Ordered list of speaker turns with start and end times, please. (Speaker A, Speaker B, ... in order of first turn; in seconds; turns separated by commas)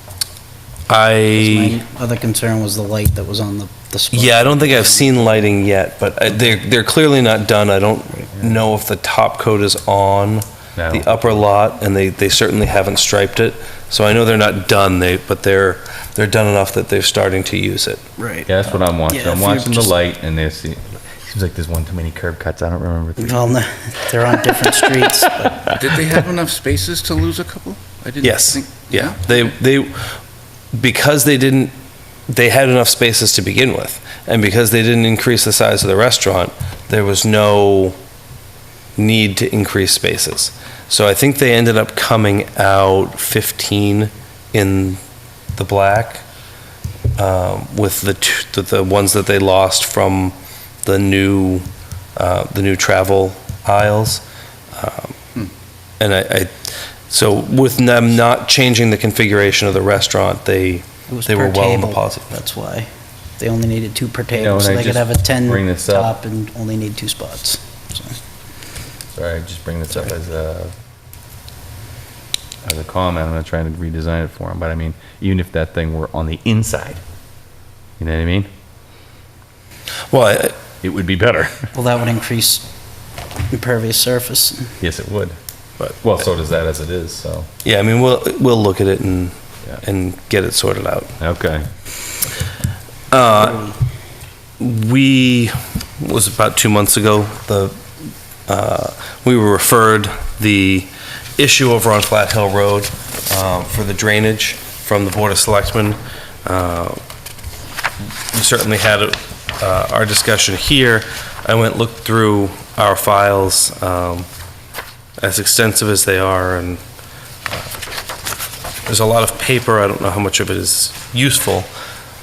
Speaker A: 0.9-1.8, Speaker B: 1.3-5.5, Speaker A: 4.1-18.0, Speaker C: 10.8-11.1, Speaker B: 18.2-19.9, Speaker C: 18.5-23.5, Speaker B: 23.2-25.8, Speaker D: 25.7-29.5, Speaker A: 28.2-30.1, Speaker A: 30.7-31.7, Speaker A: 32.3-38.0, Speaker A: 39.0-45.0, Speaker A: 45.5-46.2, Speaker A: 47.1-54.2, Speaker A: 54.8-55.1, Speaker A: 56.0-56.5, Speaker A: 57.1-62.4, Speaker B: 61.1-62.9, Speaker B: 63.4-68.2, Speaker C: 64.3-66.1, Speaker C: 69.2-70.7, Speaker C: 72.6-77.0, Speaker C: 78.0-78.5, Speaker A: 80.1-80.6, Speaker C: 80.8-81.7, Speaker B: 81.7-82.6, Speaker B: 83.5-84.7, Speaker C: 84.8-87.5, Speaker A: 87.6-91.1, Speaker C: 91.2-91.7, Speaker A: 93.1-93.7, Speaker B: 93.3-93.7, Speaker A: 94.6-97.8, Speaker A: 98.5-107.0, Speaker A: 108.3-114.3, Speaker A: 115.2-116.8, Speaker A: 118.8-121.7